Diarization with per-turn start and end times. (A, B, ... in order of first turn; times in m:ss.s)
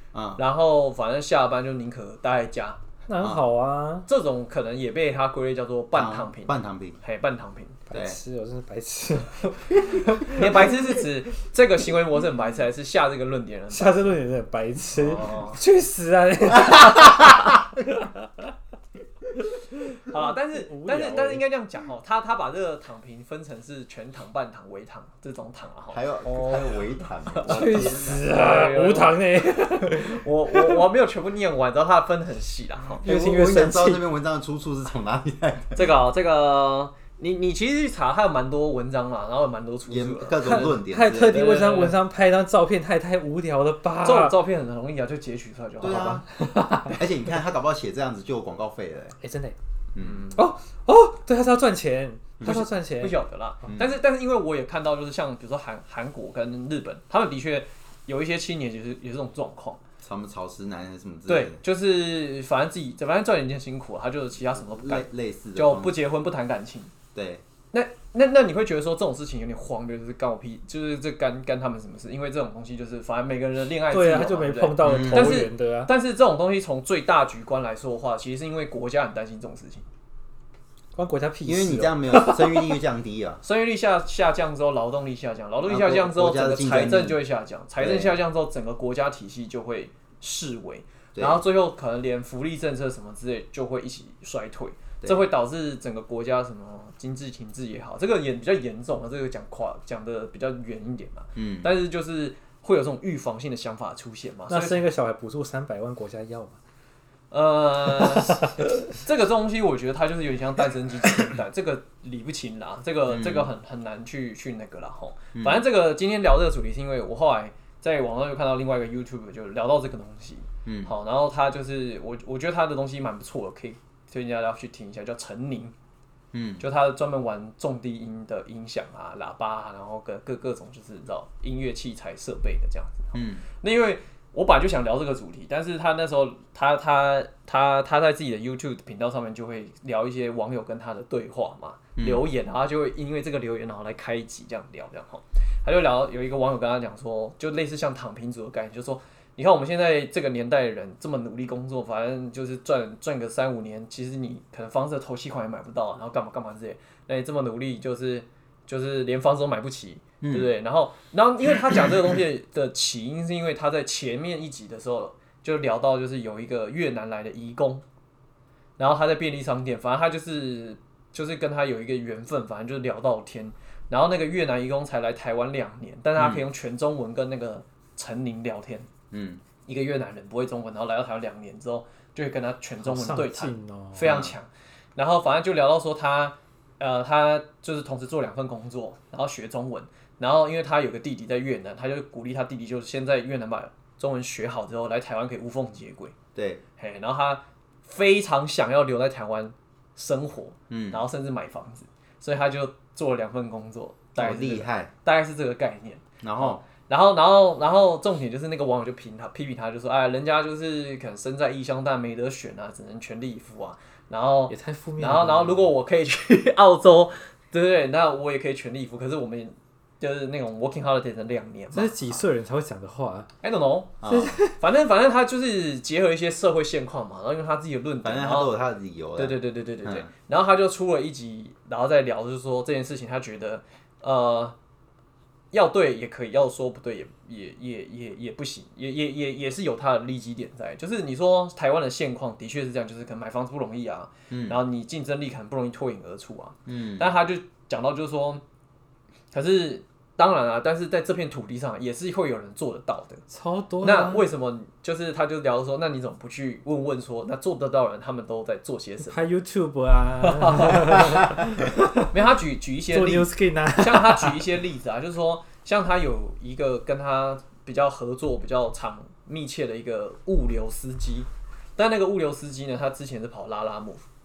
0:00.1-0:00.4 A
0:00.4-0:02.8 B
0:03.1-0:04.1 C
0:04.1-0:07.8 B
0:05.9-0:07.0 A
0:07.9-0:11.0 C
0:07.9-0:08.2 A
0:10.2-0:14.1 B
0:13.7-0:18.5 C
0:14.9-0:15.6 A
0:16.6-0:17.5 A
0:19.4-0:21.4 C
0:20.0-0:33.1 B
0:25.9-0:28.3 A
0:27.5-0:30.8 C
0:33.0-0:35.8 A
0:33.0-0:34.0 C
0:35.8-0:40.7 B
0:39.9-0:41.5 A
0:40.4-0:44.4 C
0:41.2-0:42.0 B
0:44.0-0:46.2 B
0:45.8-0:46.3 A
0:45.9-0:47.1 C
0:46.8-0:49.2 A
0:49.2-0:49.6 C
0:50.0-0:50.3 A
0:50.0-0:50.4 B
0:50.4-0:53.2 C
0:52.4-0:52.6 A
0:52.4-0:59.8 B
0:53.6-0:54.0 A
1:00.0-1:01.6 A
1:01.3-1:06.9 B
1:04.5-1:06.0 A
1:07.1-1:07.4 A
1:07.7-1:19.9 B
1:13.9-1:15.9 C
1:14.8-1:15.4 A
1:21.0-1:22.8 C
1:21.5-1:23.4 A
1:23.4-1:44.8 B
1:25.6-1:27.2 A
1:27.8-1:28.2 A
1:31.1-1:31.4 A
1:41.4-1:41.7 A
1:44.5-1:46.6 C
1:47.3-2:05.7 B
1:53.1-1:53.5 A
1:55.4-1:55.6 A
2:00.6-2:00.9 A
2:06.3-2:06.6 A
2:06.6-2:47.8 B
2:13.1-2:13.4 A
2:22.0-2:22.2 A
2:40.2-2:40.5 A
2:48.8-2:58.9 B
2:56.2-2:56.4 A
2:59.1-2:59.4 A
2:59.6-3:16.1 B
3:02.8-3:04.1 C
3:04.0-3:04.3 A
3:16.3-3:16.6 A
3:16.8-3:42.2 B
3:20.7-3:21.0 A
3:24.2-3:24.9 A
3:26.2-3:26.6 A
3:34.5-3:35.7 C
3:41.7-3:43.3 C
3:43.4-3:44.0 B
3:44.0-3:44.4 A
3:44.1-3:44.6 C
3:44.6-3:48.5 B
3:48.0-3:50.1 A
3:49.2-3:54.6 B
3:55.5-4:08.4 B
4:04.3-4:04.6 A
4:06.7-4:07.1 A
4:09.3-4:13.2 B
4:13.3-4:14.2 C
4:13.8-4:19.2 B
4:19.0-4:22.1 C
4:20.2-4:21.4 B
4:22.1-4:34.0 B
4:22.9-4:24.5 C